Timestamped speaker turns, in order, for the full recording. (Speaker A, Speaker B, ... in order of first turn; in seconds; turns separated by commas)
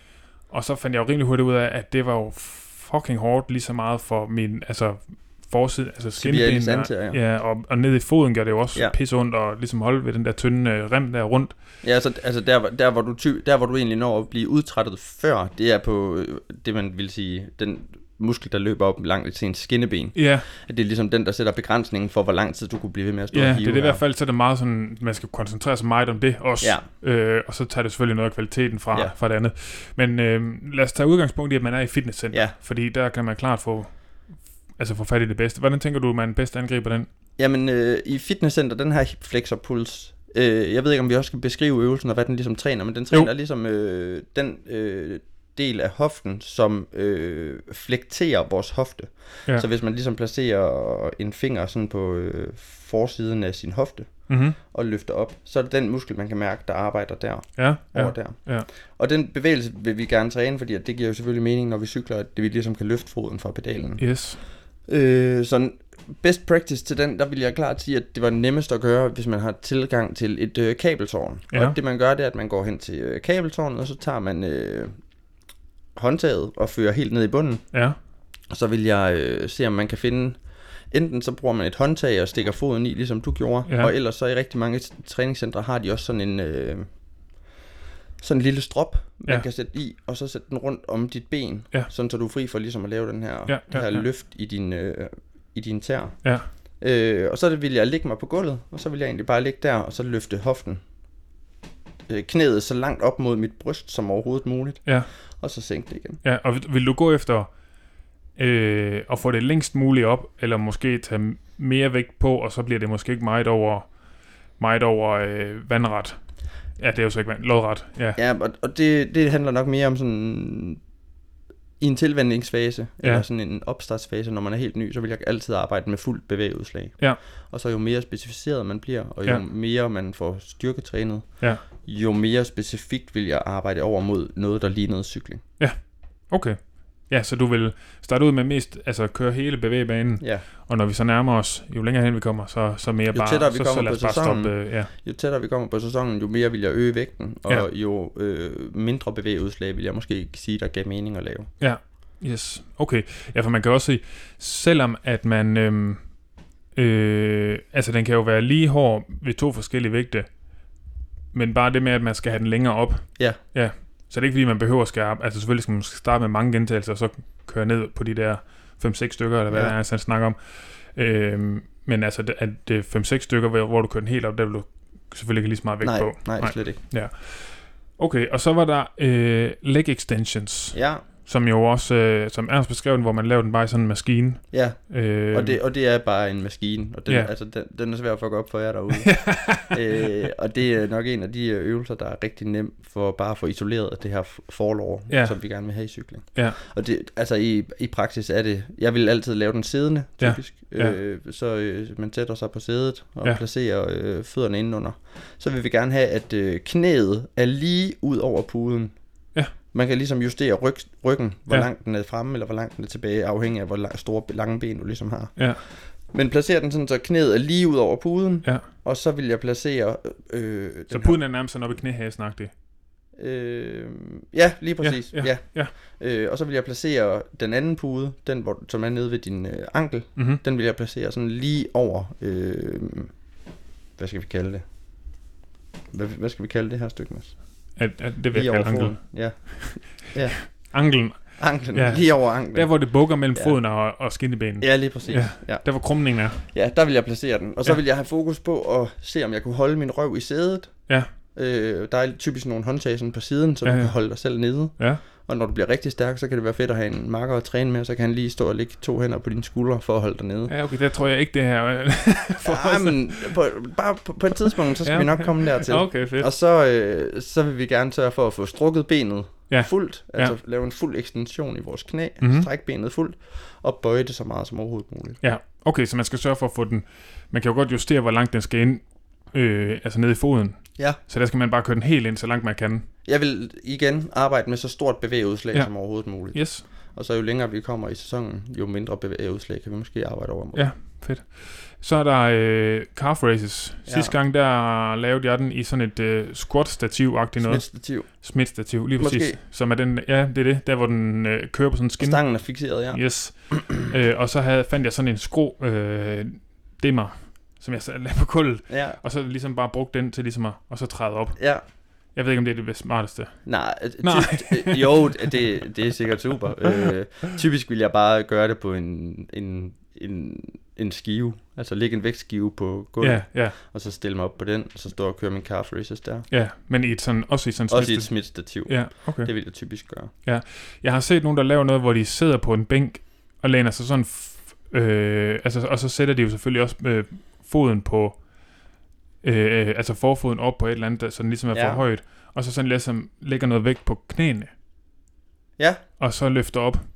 Speaker A: 0.5-11.5, Speaker B: 6.2-7.2, Speaker B: 11.8-24.0, Speaker A: 20.1-20.5, Speaker A: 23.3-34.0, Speaker A: 34.8-37.1, Speaker B: 37.4-54.1, Speaker A: 54.3-54.6, Speaker B: 54.6-64.0, Speaker A: 57.6-58.7, Speaker A: 64.0-64.4, Speaker B: 64.9-74.9, Speaker B: 76.0-77.6, Speaker B: 78.5-80.4, Speaker B: 80.9-86.8, Speaker B: 88.2-96.2, Speaker A: 93.5-94.0, Speaker B: 96.8-100.8, Speaker B: 102.1-104.8, Speaker B: 105.4-106.2, Speaker A: 106.2-107.5, Speaker A: 108.4-113.9, Speaker A: 114.6-116.2, Speaker A: 116.8-118.2, Speaker B: 118.2-120.8, Speaker B: 121.8-135.4, Speaker A: 136.3-136.6, Speaker A: 137.1-144.9, Speaker B: 140.2-140.4, Speaker B: 143.1-151.5, Speaker A: 151.6-156.0, Speaker A: 156.7-160.3, Speaker A: 161.3-170.4, Speaker A: 170.9-185.6, Speaker B: 175.8-176.8, Speaker B: 180.7-181.1, Speaker B: 184.5-208.9, Speaker A: 189.0-189.8, Speaker A: 195.1-195.3, Speaker A: 200.2-201.0, Speaker B: 209.7-221.2, Speaker A: 220.9-222.5, Speaker B: 223.2-233.1, Speaker A: 224.8-225.7, Speaker B: 234.0-234.6, Speaker B: 235.9-237.3, Speaker A: 237.8-239.9, Speaker B: 238.3-240.5, Speaker A: 240.6-246.4, Speaker B: 241.4-242.7, Speaker B: 244.6-245.7, Speaker B: 246.4-250.7, Speaker B: 251.3-260.5, Speaker A: 253.6-253.9, Speaker A: 260.5-263.3, Speaker B: 262.4-275.2, Speaker A: 264.8-266.3, Speaker A: 269.5-270.3, Speaker A: 272.2-272.5, Speaker A: 275.2-282.9, Speaker B: 283.0-290.6, Speaker A: 286.3-286.6, Speaker A: 290.5-302.2, Speaker B: 293.9-294.1, Speaker B: 297.4-298.1, Speaker B: 299.0-299.4, Speaker B: 302.0-303.6, Speaker A: 302.9-311.4, Speaker B: 308.7-309.0, Speaker A: 312.1-313.4, Speaker B: 313.4-326.3, Speaker A: 314.0-315.3, Speaker A: 323.0-323.6, Speaker A: 326.3-329.3, Speaker B: 327.7-330.1, Speaker A: 330.2-338.2, Speaker A: 339.2-344.5, Speaker B: 341.5-341.8, Speaker A: 346.0-346.8